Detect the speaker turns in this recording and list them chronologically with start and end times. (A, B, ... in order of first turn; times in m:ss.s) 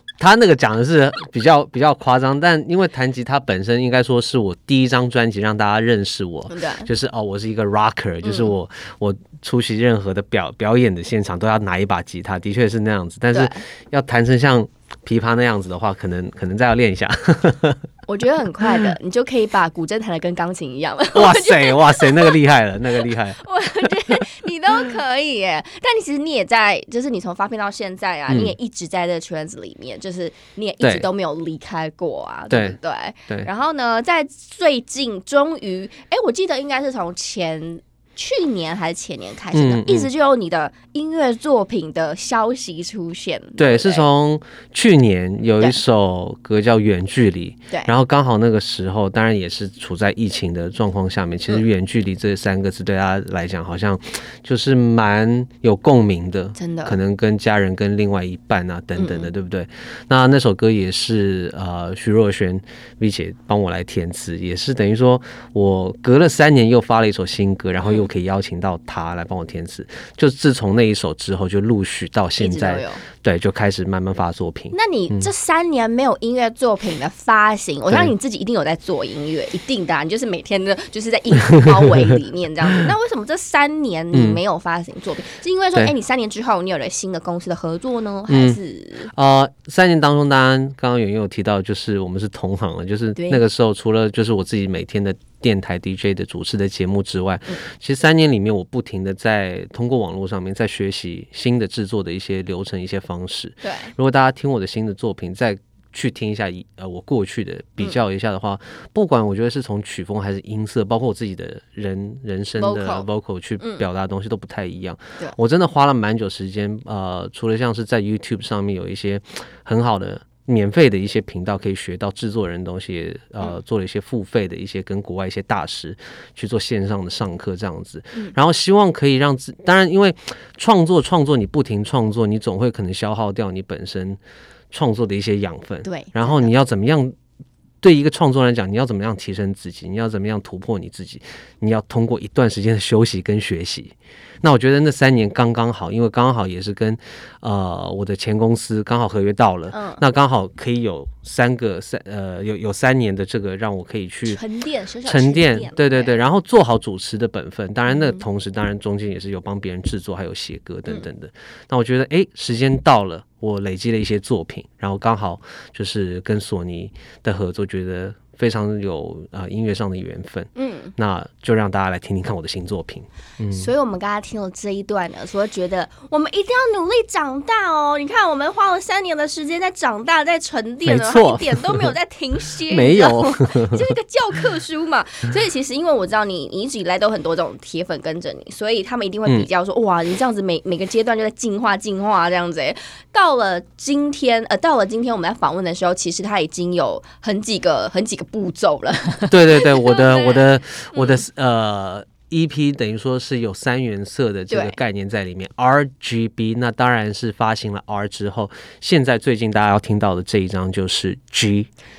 0:00.2-0:17.8 A
0:06.5-0:06.9 B
0:08.2-0:08.5 B
0:13.3-0:13.6 B
0:18.1-0:22.4 B
0:18.6-0:18.9 A
0:21.1-0:23.4 A
0:23.0-0:44.0 B
0:28.3-0:28.6 A
0:30.8-0:31.1 A
0:32.5-0:32.8 A
0:39.5-0:40.1 A
0:43.6-1:15.3 A
0:56.6-0:57.0 B
0:59.0-0:59.3 B
1:07.8-1:08.1 B
1:12.4-1:13.0 B
1:14.7-1:29.1 B
1:21.5-1:22.2 A
1:24.1-1:24.4 A
1:28.3-2:14.2 A
1:33.2-1:33.4 B
1:43.6-1:43.9 B
1:52.6-1:53.1 B
1:53.6-1:53.8 B
2:14.7-2:17.2 A
2:15.8-2:16.5 B
2:17.8-2:34.4 A
2:29.7-2:30.0 B
2:34.3-2:36.2 B
2:35.0-2:53.7 A
2:37.9-2:38.2 B
2:50.6-2:50.9 B
2:53.5-3:21.2 B
3:00.9-3:01.9 A
3:02.7-3:03.8 A
3:19.3-3:31.7 A
3:24.5-3:24.8 B